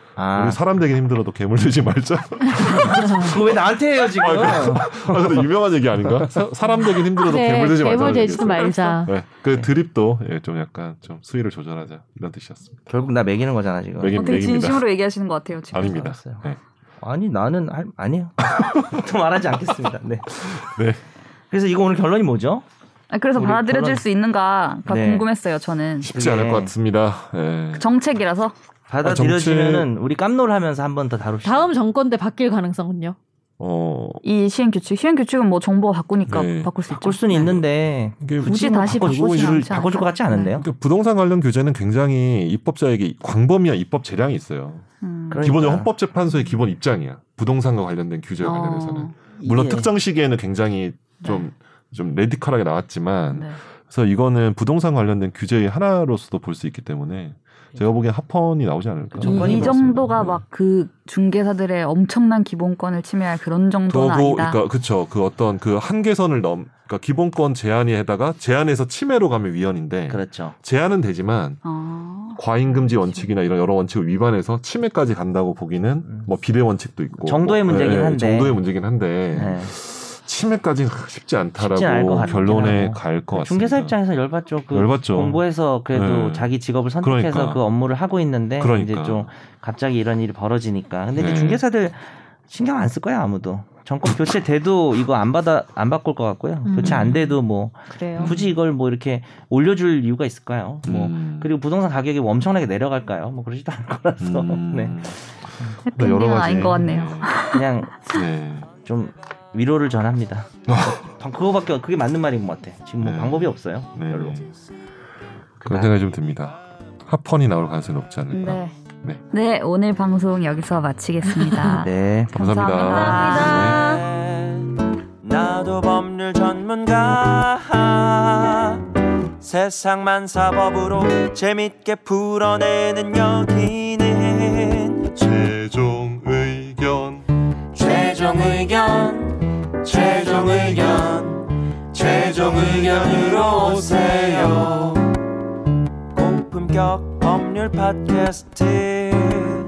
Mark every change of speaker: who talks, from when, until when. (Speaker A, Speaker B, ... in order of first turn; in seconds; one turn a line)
Speaker A: 0.1-0.6
Speaker B: 0.3-12.8
Speaker A: 2.5-5.5
Speaker A: 6.0-7.0
Speaker C: 7.2-9.1
Speaker D: 8.1-9.1
Speaker A: 12.9-14.4
Speaker B: 14.0-14.8
Speaker D: 14.1-16.1
Speaker A: 15.7-16.4
Speaker B: 15.7-16.6
Speaker A: 17.0-20.6
Speaker B: 18.4-18.9
Speaker B: 20.4-21.0
Speaker A: 21.5-22.6
Speaker D: 23.1-26.1
Speaker A: 23.3-24.0
Speaker A: 24.9-25.3
Speaker B: 26.0-27.9
Speaker A: 26.1-26.7
Speaker D: 27.7-28.5
Speaker A: 28.9-31.7
Speaker B: 29.0-29.9
Speaker C: 31.4-33.2
Speaker B: 33.6-34.2
Speaker D: 34.2-37.6
Speaker B: 36.3-36.8
Speaker A: 36.9-40.7
Speaker B: 38.2-39.8
Speaker D: 38.4-40.5
Speaker B: 40.5-44.8
Speaker D: 45.0-45.4
Speaker A: 45.3-45.9
Speaker B: 45.4-60.4
Speaker D: 48.4-49.1
Speaker A: 49.4-49.9
Speaker D: 53.3-53.6
Speaker A: 59.1-59.8
Speaker D: 59.2-64.6
Speaker B: 63.9-71.6
Speaker A: 70.1-70.5
Speaker D: 71.6-73.3
Speaker B: 72.3-84.0
Speaker A: 77.2-78.6
Speaker A: 79.3-79.7
Speaker A: 81.6-105.8
Speaker B: 84.7-86.5
Speaker B: 87.0-87.6
Speaker B: 88.6-89.3
Speaker B: 91.1-91.6
Speaker C: 96.6-97.0
Speaker B: 96.8-97.4
Speaker D: 97.9-98.3
Speaker B: 98.2-98.5
Speaker B: 100.8-101.5
Speaker B: 104.2-105.2
Speaker D: 105.8-108.2
Speaker B: 105.9-107.4
Speaker A: 107.4-108.0
Speaker B: 108.0-108.7
Speaker A: 108.8-114.4
Speaker B: 110.7-111.1
Speaker B: 113.0-114.5
Speaker A: 115.6-115.9
Speaker B: 115.7-119.2
Speaker D: 118.3-118.8
Speaker D: 119.3-123.8
Speaker C: 121.3-121.8
Speaker A: 121.8-122.3
Speaker B: 122.3-123.8
Speaker C: 122.7-124.0
Speaker E: 125.2-128.6
Speaker E: 129.4-135.1
Speaker B: 135.2-137.2
Speaker E: 137.7-145.1
Speaker B: 142.5-143.5
Speaker B: 144.0-144.5
Speaker E: 146.2-149.5